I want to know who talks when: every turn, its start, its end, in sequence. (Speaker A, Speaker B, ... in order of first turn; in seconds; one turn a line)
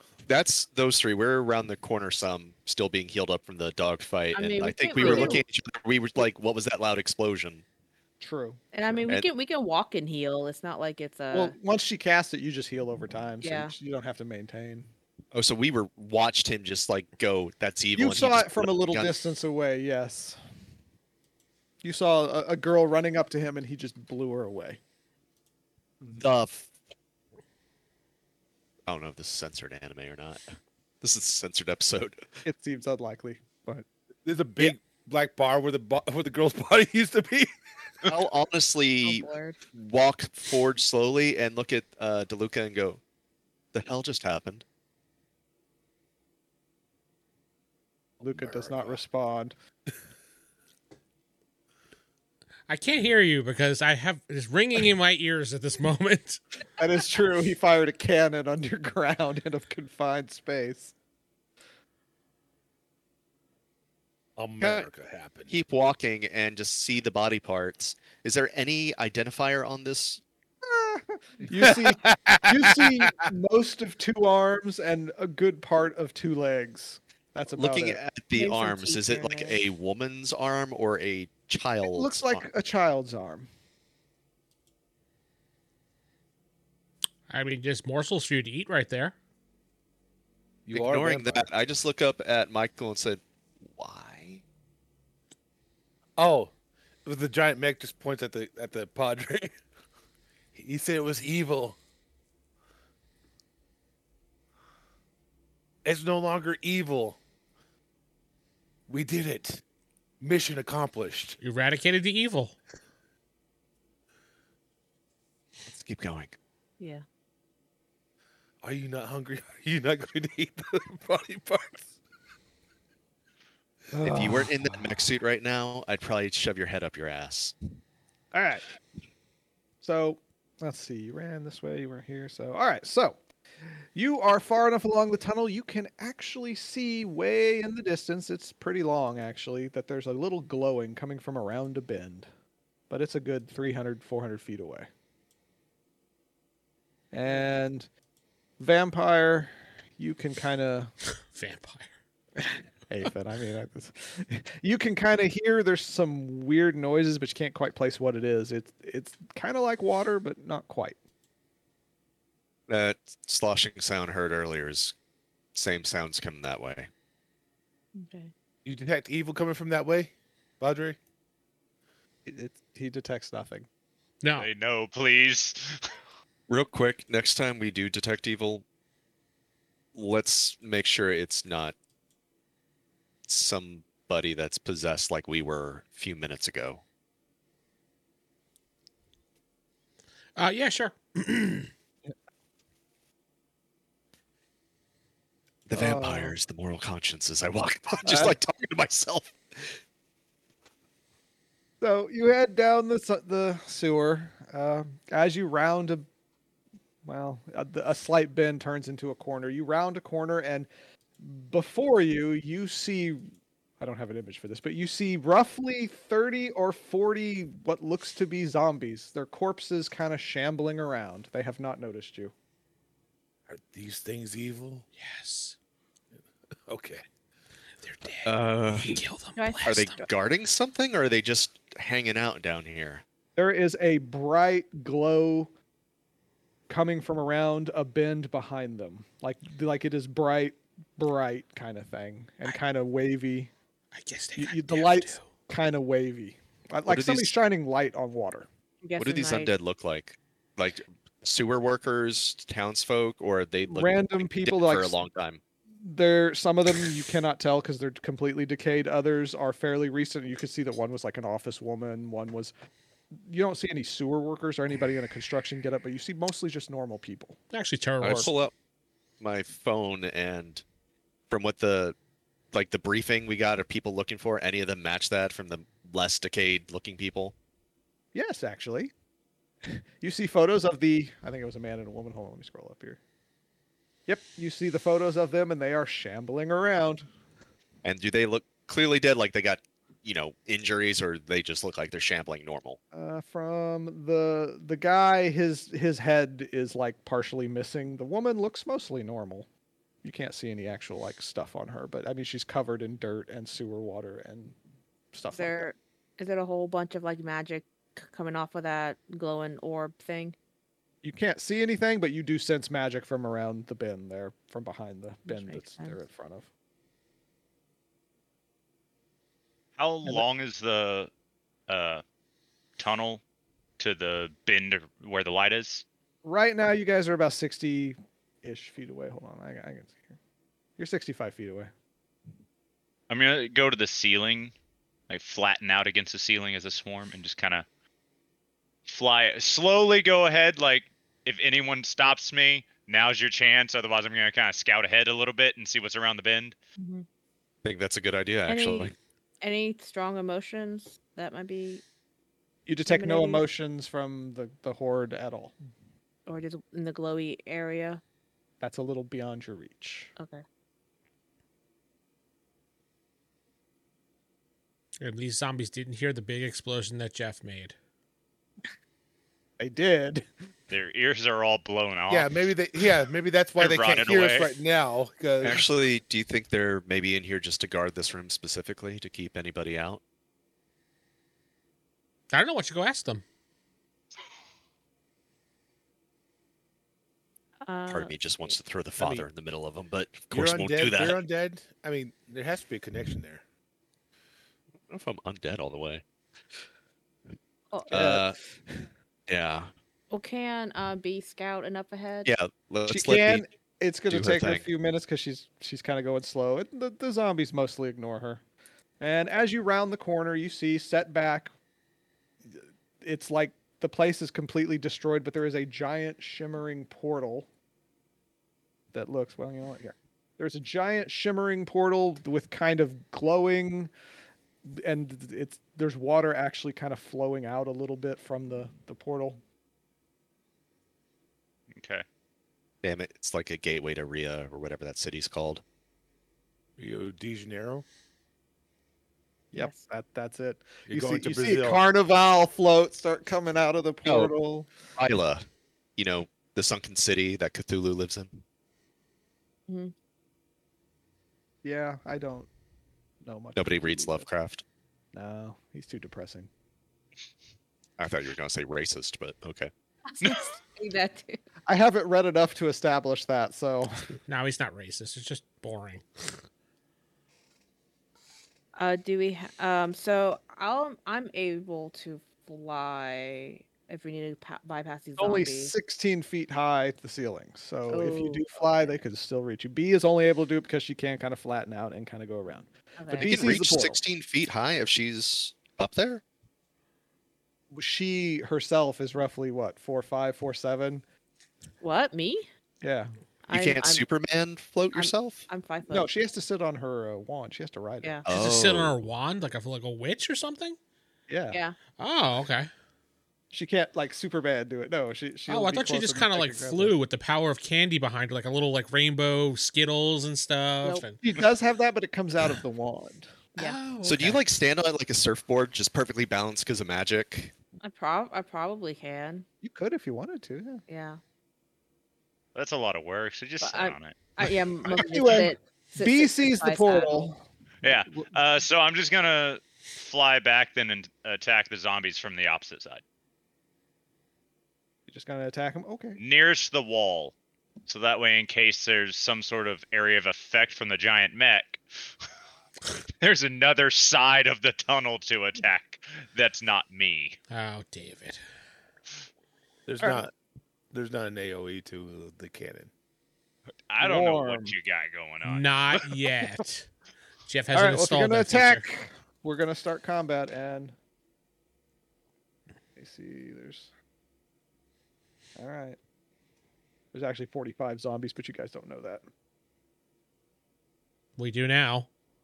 Speaker A: 0.2-7.6
Speaker B: 4.3-5.4
Speaker C: 5.0-5.4
Speaker C: 8.2-9.1
Speaker B: 8.7-11.6
Speaker C: 11.3-14.9
Speaker B: 13.4-13.7
Speaker A: 15.3-19.2
Speaker C: 17.9-20.4
Speaker C: 21.8-24.8
Speaker A: 26.1-26.7
Speaker A: 28.9-30.4
Speaker A: 31.0-32.2
Speaker C: 32.4-33.8
Speaker D: 34.2-37.5
Speaker A: 38.0-43.0
Speaker B: 39.0-39.6
Speaker A: 43.7-44.6
Speaker C: 48.2-49.5
Speaker E: 52.7-56.4
Speaker C: 56.8-60.9
Speaker D: 64.4-65.5
Speaker A: 64.6-64.9
Speaker A: 65.5-70.2
Speaker C: 70.6-78.0
Speaker D: 71.5-73.1
Speaker A: 77.5-82.5
Speaker B: 78.3-79.6
Speaker C: 81.8-83.5
Speaker E: 87.3-89.1
Speaker D: 90.7-91.5
Speaker A: 90.7-94.4
Speaker D: 96.2-96.5
Speaker D: 97.0-99.5
Speaker D: 100.5-101.8
Speaker D: 105.8-107.2
Speaker D: 108.9-109.6
Speaker D: 110.2-111.4
Speaker E: 111.4-112.5
Speaker A: 115.6-116.3
Speaker B: 116.8-117.0
Speaker D: 118.6-121.9
Speaker D: 123.9-124.5
Speaker C: 124.1-124.4
Speaker A: 124.1-127.5
Speaker C: 128.3-128.7
Speaker C: 129.8-142.3
Speaker C: 142.9-144.9
Speaker C: 147.1-147.9
Speaker C: 148.6-150.9
Speaker E: 151.3-151.9
Speaker C: 152.9-161.0
Speaker A: 162.7-164.9
Speaker A: 165.5-166.9
Speaker B: 167.9-168.3
Speaker D: 168.6-171.0
Speaker C: 172.2-173.7
Speaker E: 174.2-174.5
Speaker F: 174.4-175.9
Speaker A: 176.5-178.6
Speaker A: 179.9-181.7
Speaker A: 183.3-186.8
Speaker E: 190.3-191.7
Speaker A: 195.7-199.8
Speaker C: 195.7-196.3
Speaker C: 198.0-198.3
Speaker C: 201.8-206.1
Speaker C: 207.0-210.7
Speaker C: 211.2-222.3
Speaker D: 223.5-224.8
Speaker E: 224.9-225.5
Speaker D: 226.7-227.0
Speaker E: 227.8-230.1
Speaker A: 228.2-229.0
Speaker B: 229.3-229.7
Speaker A: 229.7-233.0
Speaker C: 233.3-235.5
Speaker C: 236.7-243.5
Speaker E: 243.9-245.3
Speaker C: 244.3-248.5
Speaker A: 246.9-247.3
Speaker B: 248.8-249.5
Speaker A: 249.0-255.4
Speaker C: 253.7-255.0
Speaker C: 255.8-262.5
Speaker C: 263.1-267.4
Speaker E: 267.5-268.3
Speaker A: 268.0-268.5
Speaker A: 269.2-270.6
Speaker A: 271.3-271.9
Speaker A: 272.5-277.3
Speaker C: 278.1-278.9
Speaker C: 279.6-283.0
Speaker C: 284.1-287.1
Speaker A: 287.8-292.8
Speaker C: 292.9-299.5
Speaker C: 300.0-304.6
Speaker C: 305.1-305.6
Speaker B: 305.3-310.4
Speaker C: 311.0-316.5
Speaker B: 315.2-315.9
Speaker F: 319.8-321.1
Speaker F: 321.7-322.0
Speaker F: 322.8-323.2
Speaker F: 323.8-325.8
Speaker C: 326.2-330.1
Speaker C: 330.8-331.7
Speaker F: 333.1-334.5
Speaker F: 335.1-337.6
Speaker F: 338.9-346.6
Speaker B: 346.8-347.0
Speaker A: 347.6-348.9
Speaker B: 348.5-351.8
Speaker C: 352.6-355.5
Speaker B: 352.9-353.4
Speaker B: 356.2-358.0
Speaker C: 358.6-360.1
Speaker B: 360.2-360.4
Speaker E: 365.0-367.7
Speaker C: 369.6-370.3
Speaker F: 370.7-372.9
Speaker D: 372.1-375.6
Speaker F: 373.6-374.5
Speaker A: 375.4-380.0
Speaker E: 382.3-383.2
Speaker B: 387.6-388.5
Speaker A: 387.9-391.2
Speaker D: 389.0-389.2
Speaker D: 390.3-393.4
Speaker A: 394.9-396.0
Speaker A: 397.9-398.4
Speaker C: 397.9-398.9
Speaker A: 399.3-399.7
Speaker B: 400.1-402.3
Speaker A: 402.2-403.4
Speaker C: 402.9-408.4
Speaker A: 404.1-404.7
Speaker C: 409.0-411.5
Speaker C: 412.4-417.5
Speaker C: 418.9-423.9
Speaker C: 424.6-429.4
Speaker F: 431.7-432.0
Speaker A: 432.8-435.6
Speaker D: 436.8-437.8
Speaker C: 439.5-444.7
Speaker D: 440.9-441.8
Speaker A: 444.0-444.3
Speaker A: 444.9-445.4
Speaker A: 446.0-448.4
Speaker B: 449.7-449.9
Speaker C: 451.6-452.5
Speaker C: 453.2-454.2
Speaker A: 453.6-454.6
Speaker C: 455.1-456.5
Speaker A: 458.0-459.7
Speaker B: 460.1-461.4
Speaker C: 461.7-464.1
Speaker E: 464.3-466.4
Speaker B: 468.8-475.7
Speaker C: 475.2-484.0
Speaker B: 477.9-478.9
Speaker B: 483.0-483.3
Speaker A: 483.1-486.2
Speaker C: 487.7-491.0
Speaker B: 491.8-492.5
Speaker C: 492.8-493.1
Speaker B: 493.4-494.1
Speaker A: 493.5-495.4
Speaker B: 494.9-496.1
Speaker C: 495.9-498.2
Speaker A: 498.2-498.9
Speaker E: 498.3-500.8
Speaker C: 501.3-501.6
Speaker B: 501.5-501.8
Speaker E: 502.0-502.7
Speaker C: 503.5-506.9
Speaker E: 505.5-511.2
Speaker C: 510.9-513.4
Speaker E: 513.6-514.4
Speaker A: 514.0-517.5
Speaker B: 517.8-519.5
Speaker C: 519.6-520.8
Speaker B: 520.9-521.2
Speaker F: 522.5-524.1
Speaker B: 523.6-527.3
Speaker C: 524.9-527.4
Speaker F: 527.8-533.0
Speaker C: 535.1-536.2
Speaker F: 536.2-537.3
Speaker F: 537.9-542.1
Speaker F: 543.2-547.4
Speaker E: 547.5-548.4
Speaker D: 549.9-550.3
Speaker D: 550.9-552.9
Speaker F: 553.9-556.1
Speaker C: 554.0-554.7
Speaker E: 555.4-556.9
Speaker E: 557.5-558.8
Speaker C: 557.7-560.9
Speaker C: 563.0-563.9
Speaker C: 565.6-566.0
Speaker C: 567.1-569.2
Speaker E: 571.4-572.1